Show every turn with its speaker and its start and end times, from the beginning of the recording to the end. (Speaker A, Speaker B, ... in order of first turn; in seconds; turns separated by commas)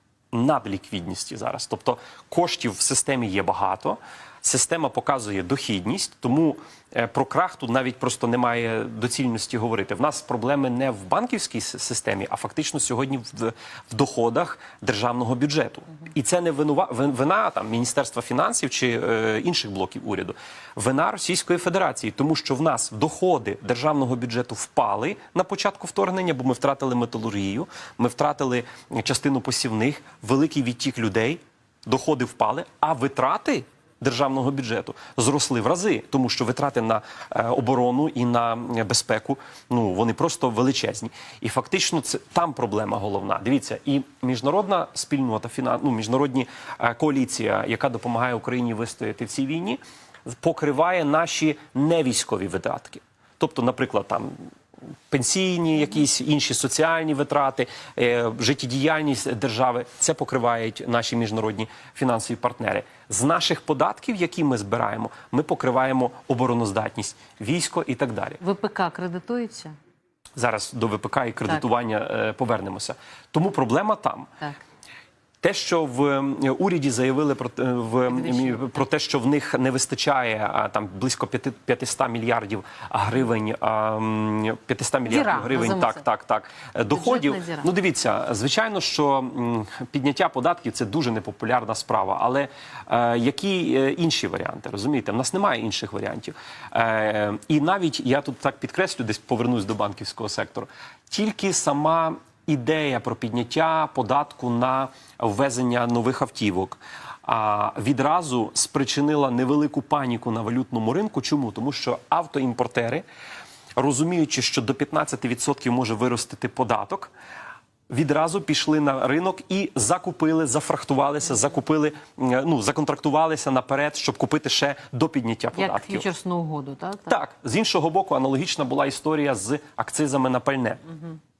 Speaker A: 0.3-54.4, Speaker A: 55.1-68.4, Speaker B: 68.4-69.7, Speaker A: 70.4-74.3, Speaker A: 75.4-113.0, Speaker B: 78.1-78.8, Speaker B: 85.1-86.0, Speaker B: 86.9-87.7, Speaker A: 113.8-117.1, Speaker A: 117.9-126.1, Speaker B: 125.5-127.2, Speaker A: 127.1-130.8